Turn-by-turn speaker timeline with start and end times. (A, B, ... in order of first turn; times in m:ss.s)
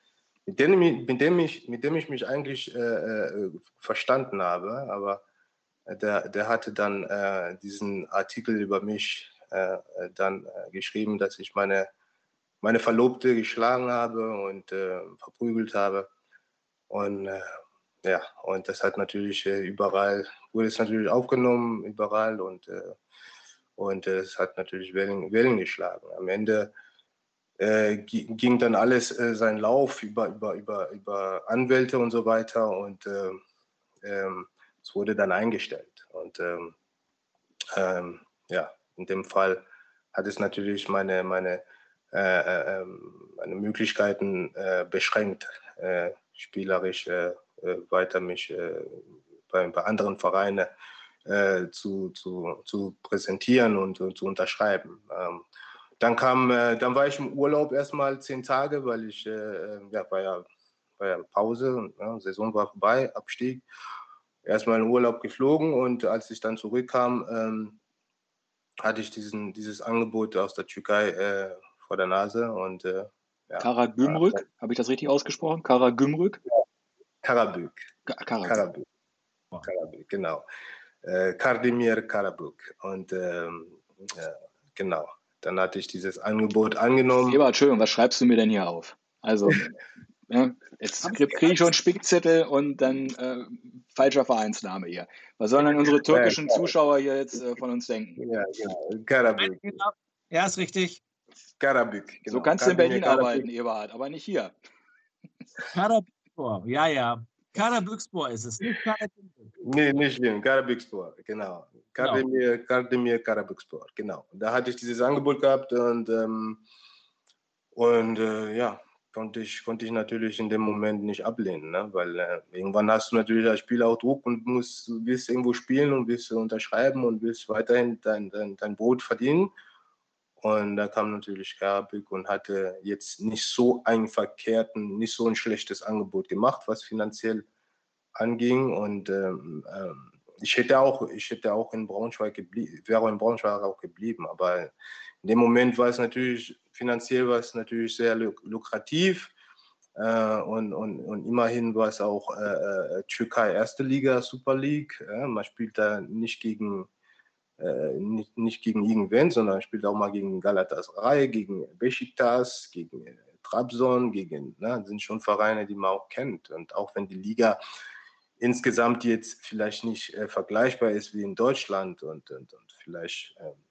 0:00.5-0:05.2 A
0:05.9-0:11.9 A
0:12.6-0:16.1 A
0:16.9-0:23.0 A
0:23.8-0:26.7 A
0:27.6-0:33.4 A
0:34.0-0:36.8 A
0:37.7-0:41.6 A
0:42.1-0:50.7 A
0:51.3-0:55.4 A
0:56.0-1:00.5 A
1:01.0-1:03.6 A
1:04.4-1:07.8 A
1:08.8-1:14.4 A
1:13.6-1:16.4 B
1:17.2-1:17.9 A
1:18.1-1:18.6 B
1:18.4-1:18.9 A
1:19.6-1:20.5 A
1:21.0-1:27.4 A
1:27.3-1:29.6 B
1:30.3-1:38.2 B
1:36.1-1:36.7 A
1:38.2-1:39.8 A
1:39.4-1:41.0 C
1:41.6-1:43.5 A
1:42.3-1:44.5 B
1:45.7-1:49.5 C
1:49.6-1:56.6 A
1:57.8-2:09.5 A
2:10.4-2:17.4 A
2:18.2-2:24.7 A
2:25.2-2:29.3 A
2:30.0-2:36.9 A
2:37.6-2:47.6 A
2:48.4-2:53.6 A